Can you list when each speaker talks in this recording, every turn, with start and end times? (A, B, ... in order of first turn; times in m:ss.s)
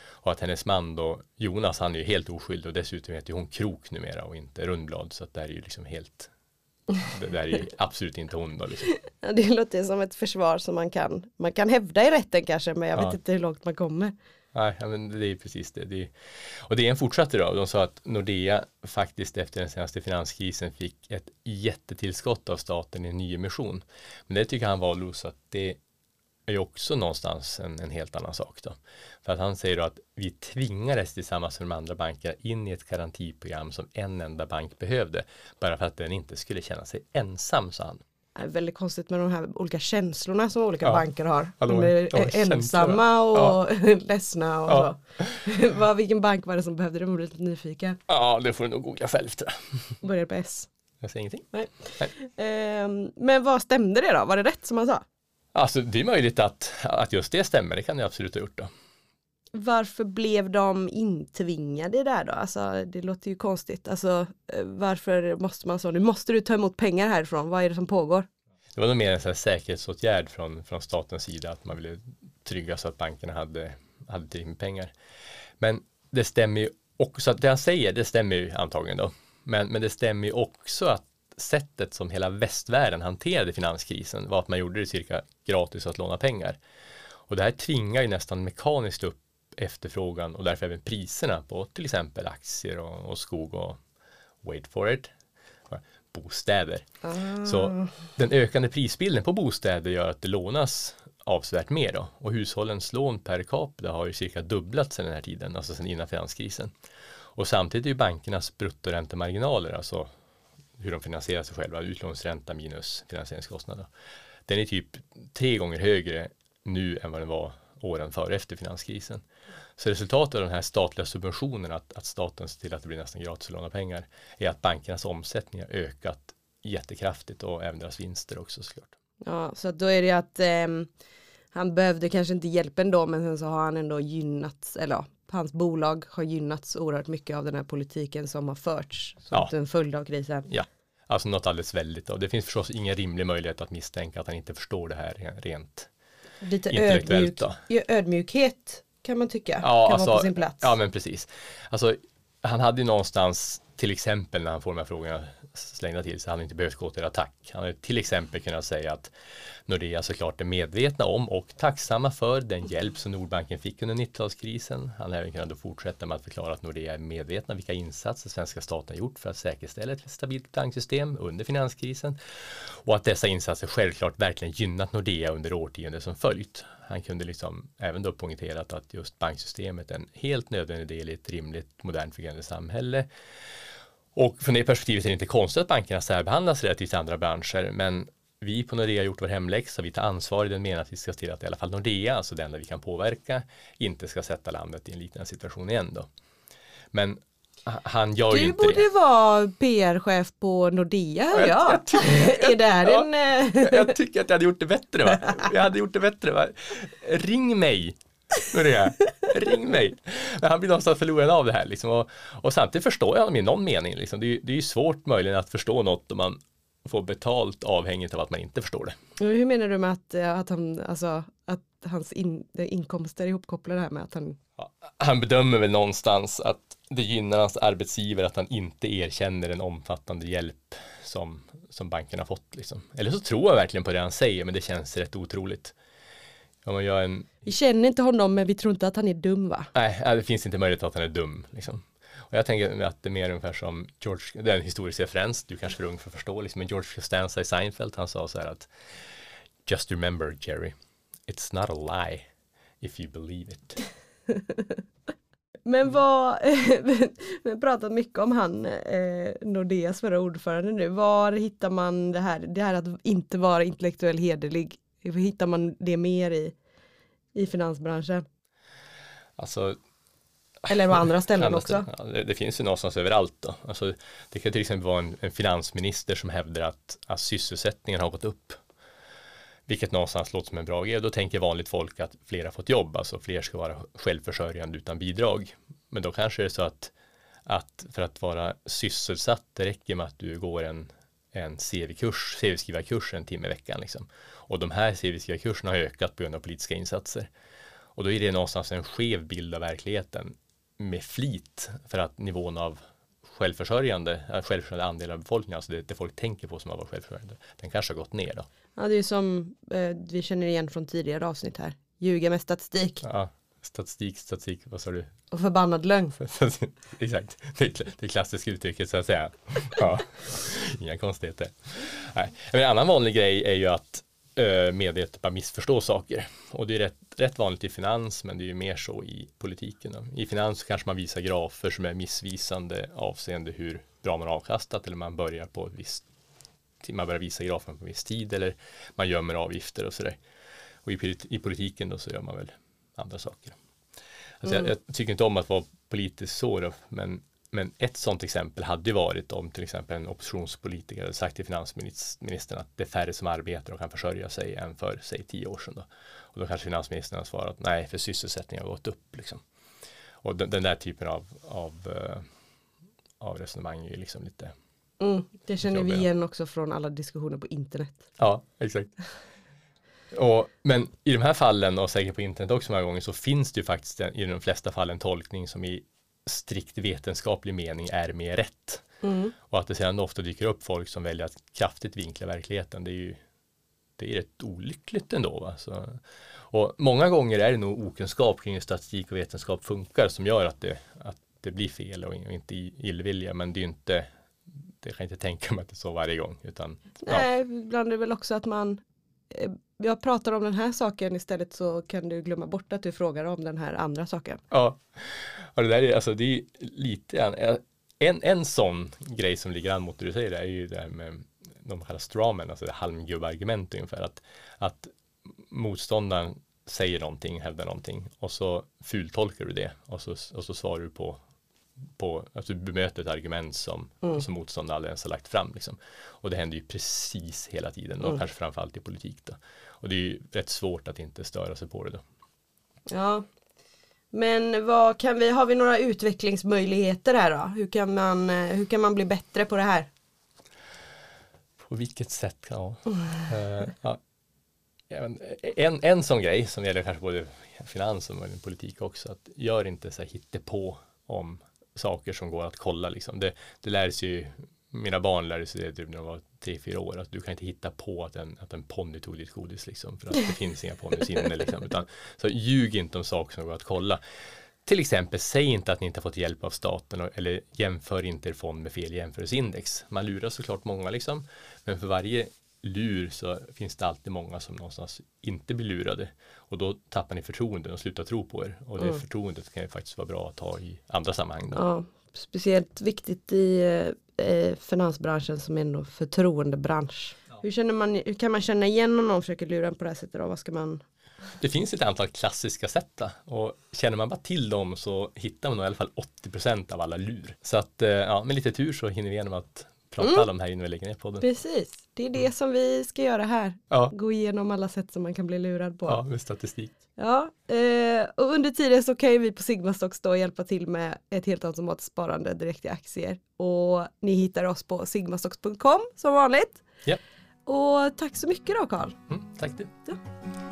0:00.2-0:06.3 A
0:07.0-0:08.9 A
0:09.1-0:14.1 B
0:14.5-0:16.1 A
0:16.6-0:25.8 A
0:26.5-0:38.0 A
0:38.4-0:48.0 B
0:41.6-0:43.6 A
0:48.1-0:50.0 A
0:50.0-0:50.7 B
0:51.0-0:52.1 A
0:51.5-0:55.0 B
0:55.5-0:58.7 A
0:59.5-1:08.3 B
1:08.8-1:14.9 A
1:15.6-1:26.6 A
1:27.3-1:33.8 A
1:34.4-1:35.1 A
1:35.7-1:36.9 A
1:37.0-1:37.9 B
1:37.4-1:46.7 A
1:47.4-1:50.1 A
1:50.8-1:53.9 A
1:54.5-1:59.2 A
1:59.8-2:09.0 A
2:09.2-2:10.9 B
2:11.5-2:20.5 B
2:20.5-2:25.9 A
2:26.4-2:30.7 B
2:26.7-2:27.6 A
2:29.6-2:39.1 A
2:39.7-3:03.1 A
3:04.2-3:16.1 A
3:16.9-3:18.8 A
3:18.3-3:24.0 B
3:21.3-3:39.0 A
3:39.2-3:44.4 B
3:44.6-3:55.8 A
3:56.6-3:57.5 A
3:57.4-3:59.7 B
3:59.7-4:08.7 A
4:09.7-4:10.8 A
4:11.3-4:12.3 A
4:12.8-4:13.8 A
4:14.5-4:14.8 B
4:15.7-4:26.6 B
4:27.4-4:28.2 B
4:29.4-4:29.8 A
4:30.7-4:31.9 B
4:31.3-4:38.6 A
4:39.7-4:46.9 A
4:47.5-4:57.3 A
4:58.0-5:08.5 A
5:08.8-5:13.0 B
5:13.0-5:15.1 A
5:15.3-5:16.2 B
5:16.2-5:36.1 A
5:36.8-5:40.2 A
5:40.8-5:43.6 A
5:44.4-5:59.4 A
6:00.2-6:02.2 A
6:03.2-6:04.5 A
6:05.0-6:08.1 B
6:05.6-6:06.1 A
6:08.2-6:08.9 A
6:10.1-6:18.8 A
6:19.0-6:19.3 B
6:19.5-6:23.2 A
6:24.0-6:26.0 A
6:26.5-6:34.0 A
6:34.8-6:37.3 A
6:37.0-6:44.4 B
6:44.5-7:01.2 A
7:02.0-7:12.0 A
7:12.9-7:13.2 B
7:14.1-7:19.9 B
7:21.7-7:24.0 A
7:24.9-7:44.0 A
7:44.6-8:01.6 A
8:01.5-8:10.8 B
8:11.4-8:21.2 A
8:20.0-8:20.3 B
8:21.2-8:26.0 B
8:25.9-8:26.7 A
8:27.0-8:36.6 B
8:37.5-8:39.0 B
8:39.1-8:39.7 A